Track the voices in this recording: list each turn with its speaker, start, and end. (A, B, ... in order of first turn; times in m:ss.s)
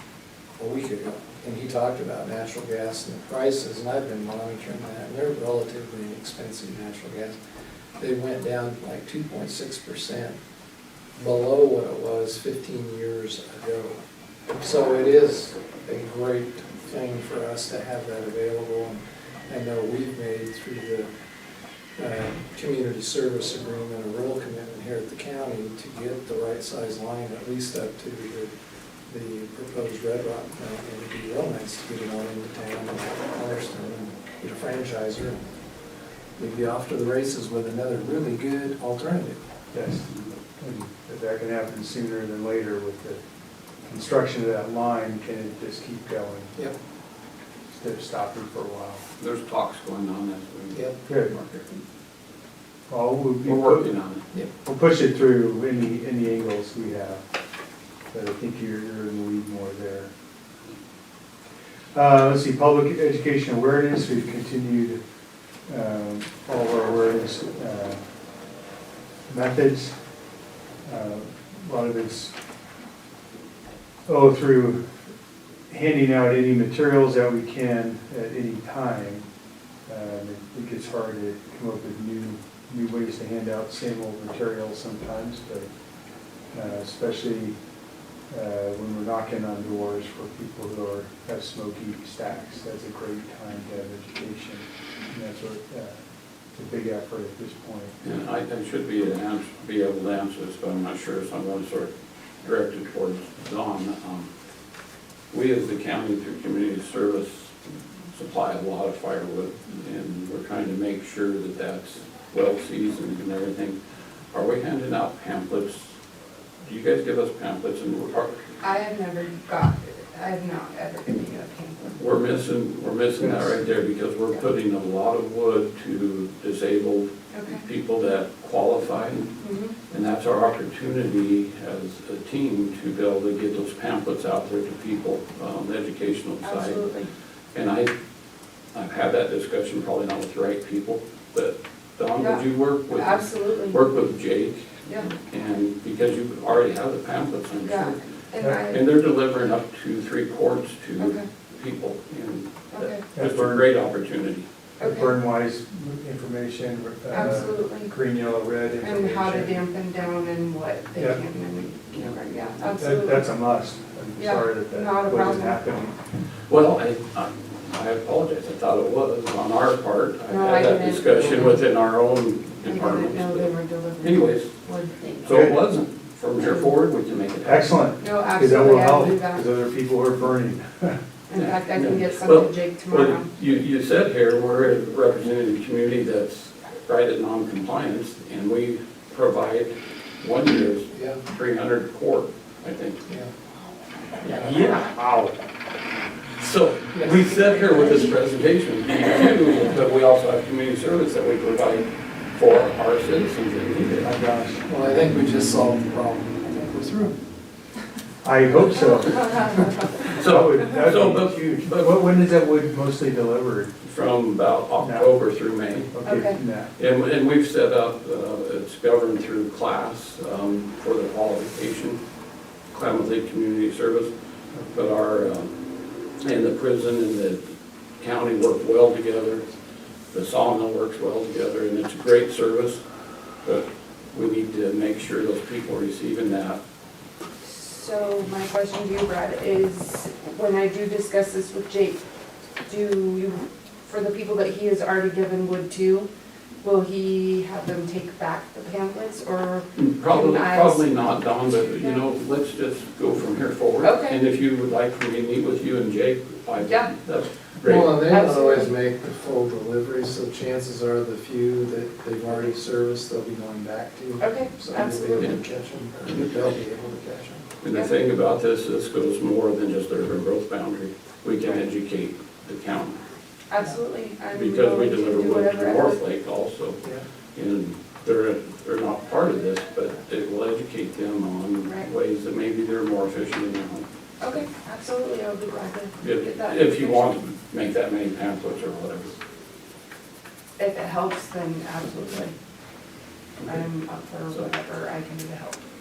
0:00.6-0:07.4 A
0:08.0-0:10.4 A
0:11.2-0:14.0 A
0:14.5-0:21.1 A
0:22.0-0:28.5 A
0:29.1-0:35.4 A
0:36.4-0:39.4 A
0:39.7-0:43.2 B
0:43.8-0:46.6 B
0:47.7-0:49.0 B
0:49.2-0:51.8 C
0:50.7-0:51.0 A
0:51.0-0:51.3 B
0:52.9-0:53.9 B
0:53.4-0:54.2 C
0:54.6-0:57.2 B
0:58.1-1:00.1 B
1:01.9-1:05.0 B
1:05.7-1:08.0 B
1:09.3-1:10.0 B
1:10.8-1:12.3 B
1:14.1-1:14.8 B
1:15.7-1:19.2 B
1:19.9-1:25.7 B
1:26.5-1:27.6 B
1:28.3-1:36.0 B
1:36.5-1:38.0 B
1:38.0-1:44.3 C
1:45.3-1:47.6 C
1:48.1-1:53.8 C
1:54.3-1:55.9 C
1:56.6-1:58.3 C
1:58.6-2:02.0 D
2:02.0-2:09.3 C
2:03.2-2:03.5 B
2:07.3-2:07.6 D
2:09.4-2:09.7 D
2:09.9-2:16.8 C
2:16.4-2:17.1 D
2:17.5-2:17.9 C
2:18.7-2:28.0 C
2:22.1-2:23.8 D
2:24.8-2:25.1 D
2:27.6-2:28.8 D
2:28.7-2:34.5 C
2:31.0-2:31.3 D
2:32.7-2:33.0 D
2:33.1-2:33.7 B
2:34.8-2:35.1 D
2:34.8-2:39.6 B
2:37.1-2:37.9 D
2:38.8-2:43.2 D
2:41.0-2:41.2 B
2:42.6-2:46.0 B
2:44.2-2:45.6 D
2:46.5-2:54.5 C
2:50.3-2:51.6 D
2:52.6-2:55.3 D
2:55.2-2:57.8 C
2:55.3-2:55.6 B
2:57.4-3:01.0 B
2:58.0-2:59.5 D
3:01.3-3:03.3 D
3:01.3-3:13.0 C
3:10.9-3:11.2 A
3:13.1-3:13.3 A
3:14.2-3:14.6 A
3:14.3-3:14.9 C
3:14.6-3:15.3 B
3:16.4-3:24.1 C
3:17.0-3:17.2 A
3:24.0-3:24.6 B
3:24.6-3:27.2 A
3:28.2-3:33.7 B
3:29.3-3:30.1 D
3:30.1-3:31.9 C
3:33.8-3:35.9 C
3:34.8-3:35.1 B
3:35.9-3:36.7 B
3:36.0-3:36.4 D
3:36.8-3:42.0 C
3:42.7-3:44.1 C
3:44.5-3:44.8 B
3:44.7-3:45.5 C
3:46.2-3:47.4 C
3:48.0-3:49.5 C
3:50.1-3:52.8 C
3:53.4-3:56.6 C
3:57.4-4:02.0 D
4:02.6-4:06.1 D
4:06.6-4:12.0 D
4:09.8-4:18.0 C
4:13.8-4:14.2 D
4:16.6-4:16.9 D
4:17.6-4:27.5 A
4:18.0-4:18.7 D
4:24.2-4:25.4 D
4:26.1-4:26.5 C
4:27.6-4:33.0 C
4:33.5-4:36.0 D
4:34.3-4:36.8 C
4:37.3-4:43.8 C
4:44.2-4:47.2 D
4:46.0-4:49.1 C
4:50.6-4:52.3 D
4:53.4-4:53.6 C
4:53.4-4:55.6 D